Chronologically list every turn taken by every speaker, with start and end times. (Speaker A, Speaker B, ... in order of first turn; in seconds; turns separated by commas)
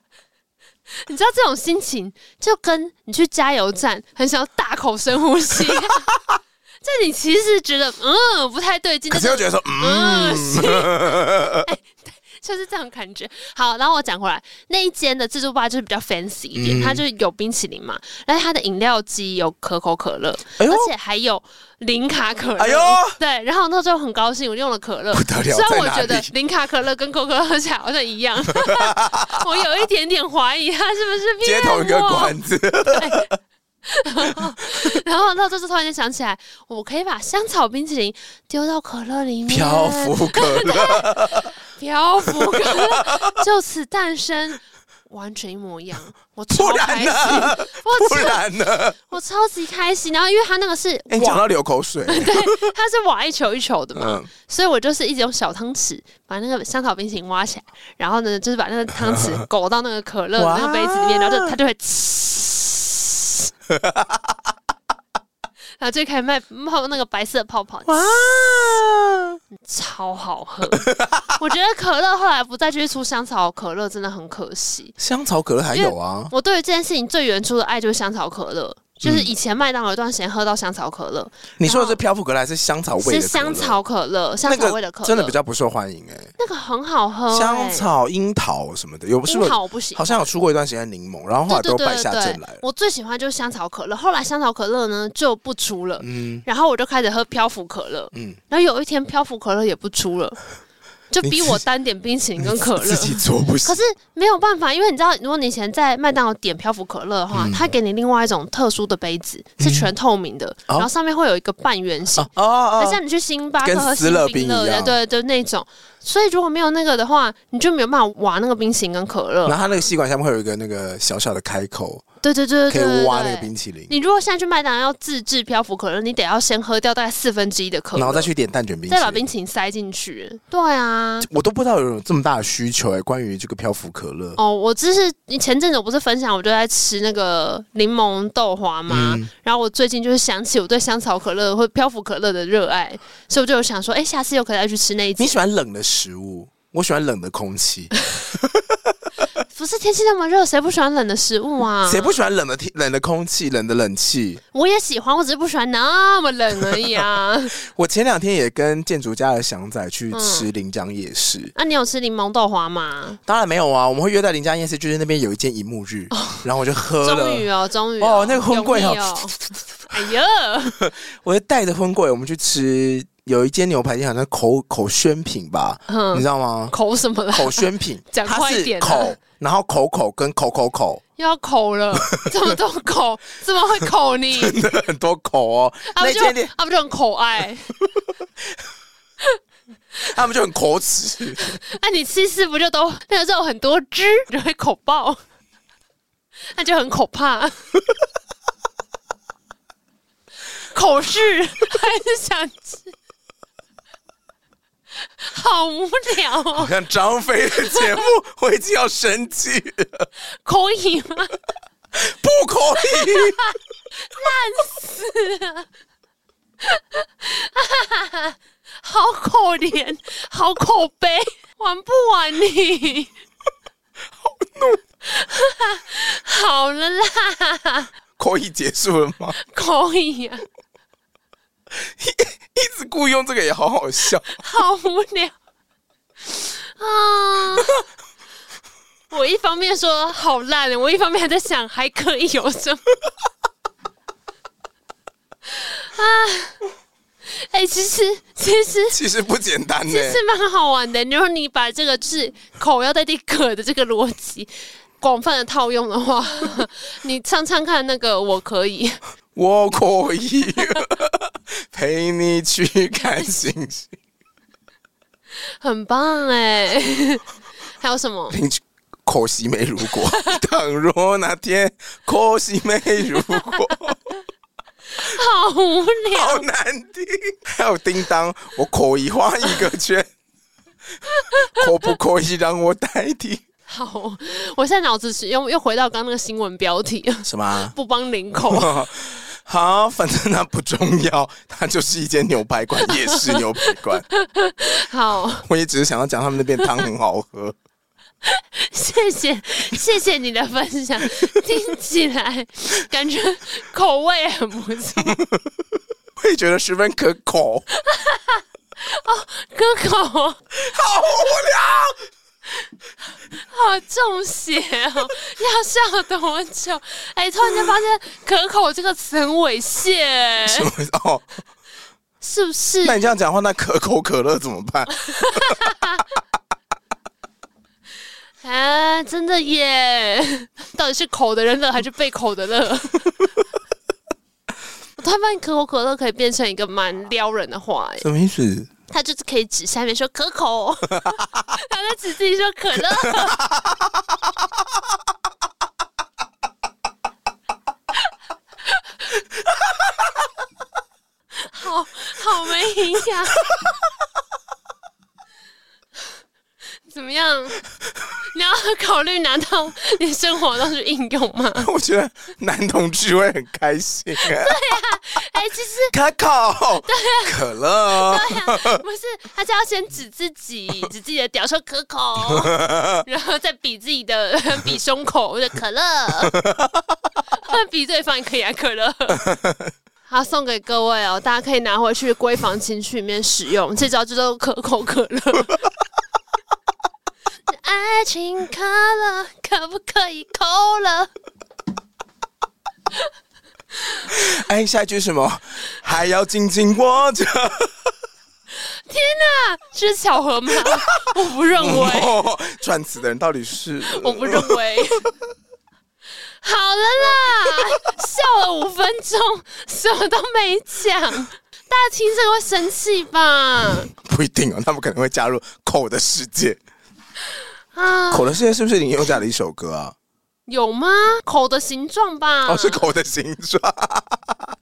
Speaker A: 1.0-6.0, Speaker B: 5.8-6.4, Speaker A: 6.8-32.4, Speaker B: 9.1-11.7, Speaker B: 16.5-17.0, Speaker B: 20.6-20.9, Speaker B: 22.6-23.2, Speaker B: 25.1-26.3, Speaker B: 28.5-29.4, Speaker B: 31.4-33.4, Speaker A: 32.9-33.3, Speaker A: 33.9-48.4, Speaker B: 34.3-34.7, Speaker B: 39.5-41.5, Speaker B: 42.3-43.4, Speaker B: 46.5-49.0, Speaker A: 49.1-51.4, Speaker B: 51.1-52.7, Speaker A: 52.1-63.5, Speaker B: 54.0-54.3, Speaker B: 59.1-59.4, Speaker B: 60.4-61.5, Speaker B: 63.7-64.2, Speaker A: 65.8-68.2, Speaker B: 67.9-69.4, Speaker A: 69.7-75.0, Speaker B: 70.7-71.4, Speaker B: 75.0-76.3, Speaker A: 75.7-82.0, Speaker B: 79.0-79.3, Speaker B: 81.6-83.8, Speaker A: 83.0-85.4, Speaker B: 84.5-86.3, Speaker A: 86.4-87.9, Speaker B: 87.3-92.6, Speaker A: 89.3-90.3, Speaker A: 91.5-100.4, Speaker B: 96.0-96.5, Speaker B: 98.1-98.4, Speaker A: 101.1-119.9, Speaker B: 101.2-101.6, Speaker B: 102.4-103.8, Speaker B: 107.3-107.7, Speaker B: 109.6-109.9, Speaker B: 112.2-113.0, Speaker B: 113.6-115.0, Speaker B: 119.5-122.0, Speaker A: 122.2-128.3, Speaker B: 122.7-123.9, Speaker B: 128.0-129.2, Speaker A: 128.9-131.3, Speaker B: 131.2-134.4, Speaker A: 134.4-145.4, Speaker B: 138.9-139.3, Speaker B: 145.2-148.9, Speaker A: 149.5-152.2, Speaker B: 151.9-154.4, Speaker A: 154.5-157.6, Speaker B: 157.6-161.5, Speaker A: 160.1-160.5, Speaker A: 161.6-163.2, Speaker B: 163.3-167.5, Speaker A: 166.1-166.4, Speaker A: 167.0-169.3, Speaker B: 168.0-169.4, Speaker A: 169.9-170.8, Speaker B: 170.8-176.8, Speaker A: 175.9-179.2, Speaker B: 177.3-181.0, Speaker A: 181.2-184.6, Speaker B: 184.3-186.5, Speaker A: 185.9-187.7, Speaker B: 190.0-191.6, Speaker A: 191.5-195.2, Speaker A: 196.5-197.6, Speaker A: 200.7-202.9, Speaker A: 205.1-206.7, Speaker B: 206.5-210.1, Speaker A: 210.4-211.3, Speaker B: 211.9-213.5, Speaker A: 212.8-215.7, Speaker A: 216.6-223.1, Speaker B: 224.2-224.8, Speaker A: 225.1-227.9, Speaker B: 228.2-229.4, Speaker A: 229.4-230.4, Speaker B: 231.8-234.4, Speaker A: 234.3-235.3, Speaker A: 236.2-237.7, Speaker A: 239.1-242.8, Speaker A: 245.5-246.6, Speaker A: 247.2-249.0, Speaker B: 248.9-250.2, Speaker A: 249.9-259.0, Speaker B: 259.4-263.9, Speaker A: 265.5-267.2, Speaker A: 267.8-268.4, Speaker B: 268.3-274.1, Speaker A: 273.2-273.6, Speaker A: 274.9-276.5, Speaker B: 276.1-280.1, Speaker B: 281.3-283.4, Speaker A: 283.7-288.7, Speaker B: 287.2-287.7, Speaker B: 288.4-294.1, Speaker A: 292.9-293.4, Speaker A: 294.1-295.5, Speaker B: 295.4-297.6, Speaker A: 298.2-305.2, Speaker B: 305.0-305.5, Speaker B: 306.2-307.7, Speaker A: 307.8-310.4, Speaker B: 310.5-312.0, Speaker A: 313.3-320.7, Speaker B: 320.5-321.3, Speaker A: 322.2-323.0, Speaker B: 322.8-325.7, Speaker A: 325.1-326.0, Speaker A: 328.4-333.1, Speaker A: 335.0-338.1, Speaker B: 338.0-338.7, Speaker A: 338.9-343.4, Speaker B: 343.1-343.6, Speaker A: 351.4-353.4, Speaker A: 356.9-357.6, Speaker A: 358.3-361.7, Speaker B: 361.6-364.6, Speaker A: 364.2-365.9, Speaker B: 365.9-368.8, Speaker A: 366.9-376.4, Speaker B: 372.3-373.1, Speaker B: 376.3-376.8, Speaker A: 377.3-379.3, Speaker B: 379.1-379.7, Speaker A: 380.1-385.6, Speaker A: 387.5-391.1, Speaker B: 394.1-397.7, Speaker A: 398.5-402.1, Speaker B: 400.6-405.1, Speaker A: 403.9-405.1, Speaker A: 406.4-413.9, Speaker B: 414.0-416.6, Speaker A: 417.7-418.3, Speaker B: 418.1-419.9, Speaker A: 420.5-422.9, Speaker B: 422.5-424.5